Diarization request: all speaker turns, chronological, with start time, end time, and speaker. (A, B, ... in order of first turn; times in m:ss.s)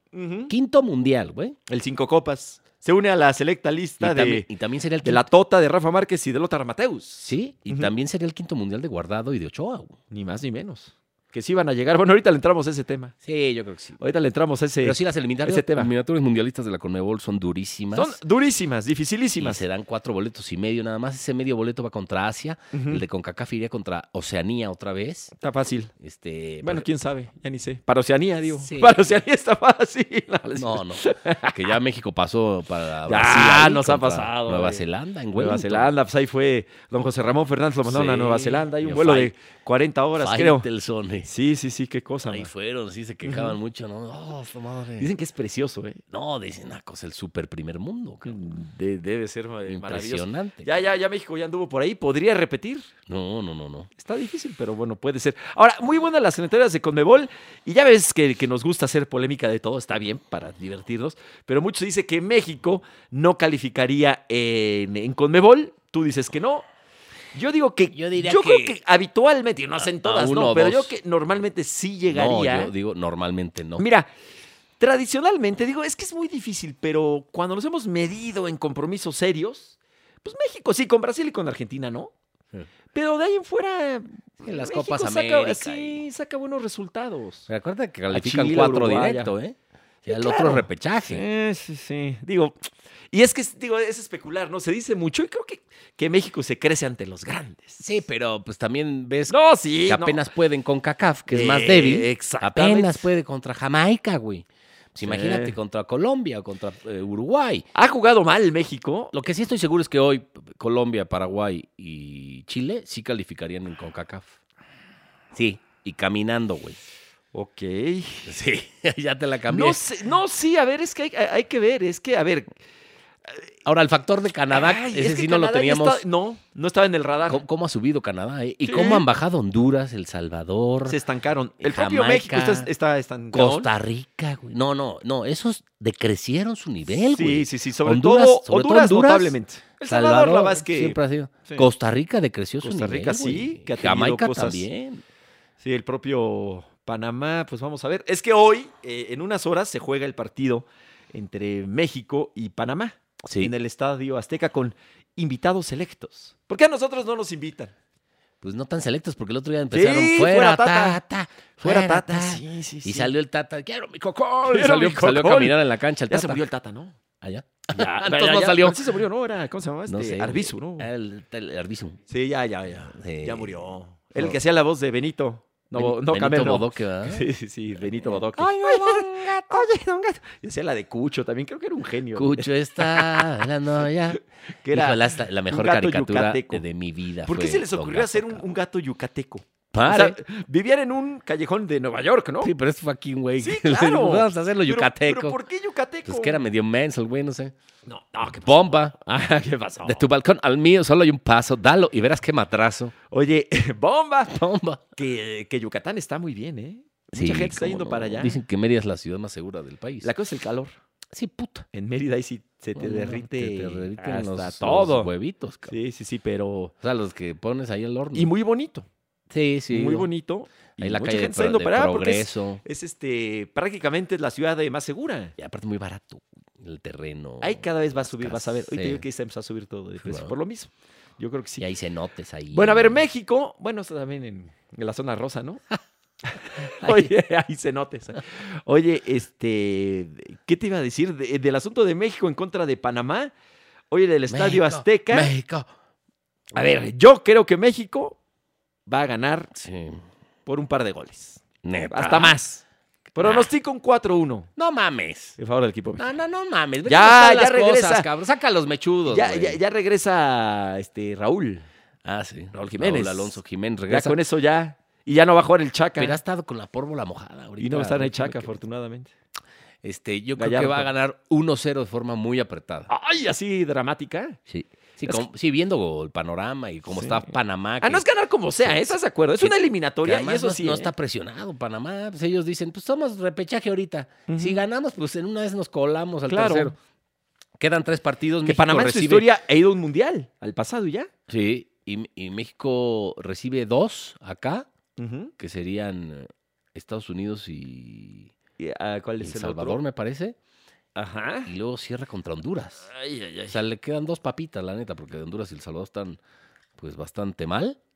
0:00.1-0:00.5 A
0:00.5-0:01.6 B
0:01.7-0:04.5 A
0:04.0-0:05.2 B
0:05.0-0:07.9 A
0:07.2-0:10.0 B
0:10.1-0:13.1 A
0:13.2-0:14.0 B
0:14.0-0:15.9 A
0:14.8-0:18.2 B
0:17.9-0:19.6 A
0:19.4-0:25.3 B
0:22.7-0:23.0 A
0:25.4-0:25.9 A
0:26.0-0:26.8 B
0:26.6-0:31.7 A
0:28.6-0:29.0 B
0:30.6-0:35.9 B
0:33.0-0:34.8 A
0:35.3-0:40.6 A
0:37.8-0:39.3 B
0:40.2-0:41.3 B
0:41.2-0:42.5 A
0:42.2-0:45.1 B
0:43.2-0:43.5 A
0:45.0-0:46.0 A
0:46.1-0:48.4 B
0:48.2-0:52.9 A
0:49.6-0:50.7 B
0:53.1-0:53.9 B
0:54.0-1:06.7 A
1:07.3-1:12.7 A
1:07.9-1:08.7 B
1:09.9-1:10.9 B
1:12.1-1:13.8 B
1:13.8-1:14.1 A
1:14.8-1:22.1 A
1:22.9-1:27.5 A
1:24.4-1:26.0 B
1:27.5-1:31.2 B
1:28.1-1:29.3 A
1:30.0-1:32.6 A
1:33.1-1:37.8 A
1:37.8-1:39.3 B
1:39.3-1:40.2 A
1:39.8-1:47.6 B
1:41.3-1:43.1 A
1:45.0-1:45.6 A
1:47.7-1:49.1 A
1:49.1-1:54.4 B
1:55.3-1:56.8 B
1:57.3-1:58.3 A
1:58.2-1:59.8 B
1:59.5-2:02.5 A
2:03.6-2:06.0 B
2:04.5-2:07.4 A
2:07.3-2:11.0 B
2:08.6-2:09.0 A
2:10.8-2:13.7 A
2:11.6-2:12.7 B
2:13.3-2:19.4 B
2:17.1-2:21.7 A
2:19.9-2:25.0 B
2:22.6-2:24.7 A
2:25.6-2:37.7 A
2:33.2-2:33.5 B
2:38.4-2:46.4 B
2:39.7-2:41.0 A
2:41.6-2:43.1 A
2:44.4-2:47.0 A
2:47.2-2:49.0 B
2:47.7-2:50.9 A
2:49.9-2:52.0 B
2:52.1-3:03.5 A
2:52.9-2:53.6 B
2:55.7-2:57.3 B
2:57.8-2:59.8 B
3:02.1-3:08.4 B
3:04.6-3:06.6 A
3:07.2-3:12.5 A
3:09.7-3:10.2 B
3:12.4-3:15.4 B
3:13.4-3:16.4 A
3:16.0-3:17.5 B
3:17.8-3:20.0 A
3:18.2-3:18.9 B
3:19.8-3:22.9 B
3:23.1-3:24.3 A
3:24.3-3:24.9 B
3:25.0-3:28.4 A
3:27.2-3:30.1 B
3:30.0-3:30.8 A
3:31.1-3:31.7 B
3:31.7-3:35.1 A
3:32.8-3:35.8 B
3:35.7-3:36.7 A
3:36.8-3:38.3 B
3:38.1-3:38.9 A
3:39.3-3:40.1 B
3:39.7-3:45.3 A
3:40.8-3:42.6 B
3:45.4-3:49.0 B
3:47.4-3:51.7 A
3:50.0-3:50.3 B
3:51.6-3:53.0 B
3:52.5-3:55.6 A
3:56.2-4:03.3 A
3:56.6-3:57.1 B
4:03.9-4:05.3 A
4:04.3-4:05.7 B
4:06.5-4:08.2 A
4:08.9-4:09.5 A
4:09.5-4:10.0 B
4:10.4-4:12.6 A
4:11.6-4:12.3 B
4:13.2-4:13.5 B
4:13.2-4:14.5 A
4:14.6-4:15.4 B
4:15.4-4:16.0 A
4:16.0-4:19.6 B
4:16.8-4:18.1 A
4:19.1-4:21.6 A
4:22.0-4:24.2 B
4:22.5-4:26.2 A
4:26.0-4:28.6 B
4:27.6-4:29.1 A
4:29.8-4:32.9 B
4:30.4-4:30.9 A
4:32.9-4:34.4 A
4:34.5-4:38.0 B
4:36.9-4:37.2 A
4:37.8-4:40.9 A
4:39.4-4:46.7 B
4:44.3-4:44.6 A
4:46.3-4:46.7 A
4:47.6-4:49.3 B
4:48.4-4:51.1 A
4:51.3-4:54.7 B
4:55.0-4:55.3 A
4:55.4-4:58.3 B
4:58.6-4:59.8 A
4:59.2-5:00.4 B
5:01.0-5:01.5 A
5:01.4-5:02.9 B
5:02.8-5:03.6 A
5:03.5-5:06.2 B
5:06.8-5:07.8 B